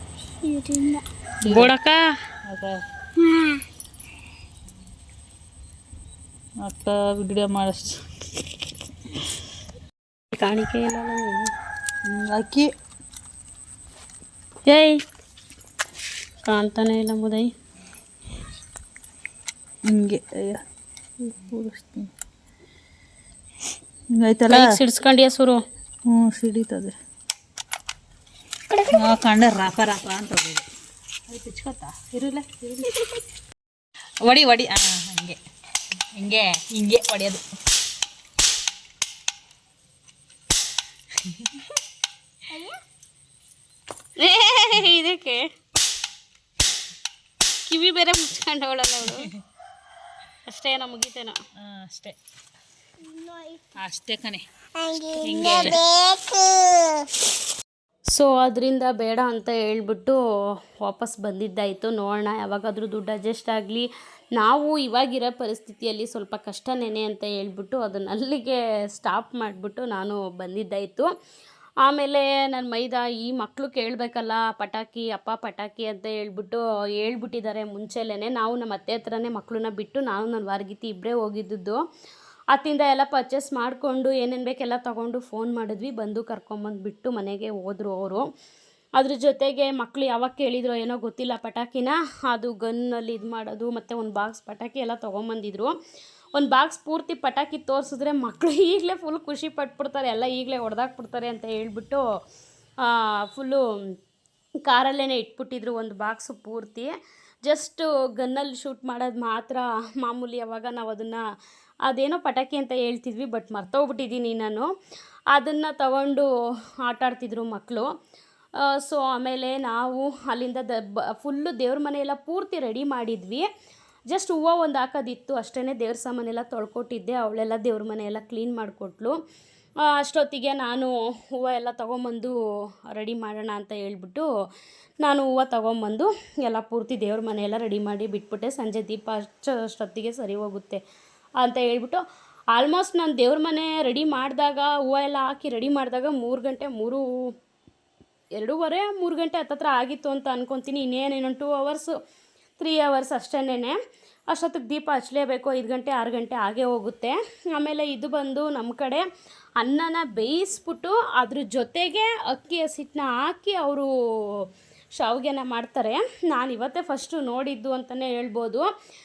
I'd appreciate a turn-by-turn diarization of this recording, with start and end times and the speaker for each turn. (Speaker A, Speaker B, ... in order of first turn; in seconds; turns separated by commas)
Speaker A: 0.4-1.1, Speaker B: 1.4-1.7, Speaker C: 1.5-2.0, Speaker B: 2.5-2.8, Speaker A: 3.2-3.6, Speaker B: 6.6-8.0, Speaker C: 10.3-11.5, Speaker B: 12.1-12.7, Speaker C: 14.7-15.0, Speaker C: 16.4-17.5, Speaker B: 19.9-20.6, Speaker B: 21.3-22.1, Speaker B: 24.1-24.8, Speaker C: 24.5-25.6, Speaker B: 26.1-27.0, Speaker B: 28.9-30.7, Speaker B: 31.3-33.0, Speaker B: 34.2-35.4, Speaker B: 36.2-37.4, Speaker B: 41.3-41.5, Speaker A: 42.5-42.8, Speaker C: 44.2-45.5, Speaker C: 47.7-49.3, Speaker C: 50.5-51.4, Speaker B: 51.6-52.2, Speaker A: 53.0-53.6, Speaker B: 53.8-54.5, Speaker A: 54.8-57.0, Speaker B: 55.2-55.8, Speaker C: 58.1-60.2, Speaker C: 60.8-71.1, Speaker C: 71.8-81.8, Speaker C: 82.5-88.3, Speaker C: 89.0-95.8, Speaker C: 96.3-102.0, Speaker C: 102.8-103.6, Speaker C: 104.7-106.9, Speaker C: 107.5-111.2, Speaker C: 111.9-114.7, Speaker C: 115.3-116.3, Speaker C: 116.8-117.9, Speaker C: 118.6-123.5, Speaker C: 124.1-129.2, Speaker C: 129.9-132.3, Speaker C: 132.9-134.3, Speaker C: 135.0-140.8, Speaker C: 141.4-142.0, Speaker C: 142.5-147.0, Speaker C: 148.4-151.9, Speaker C: 152.6-153.8, Speaker C: 154.3-159.1, Speaker C: 159.6-168.7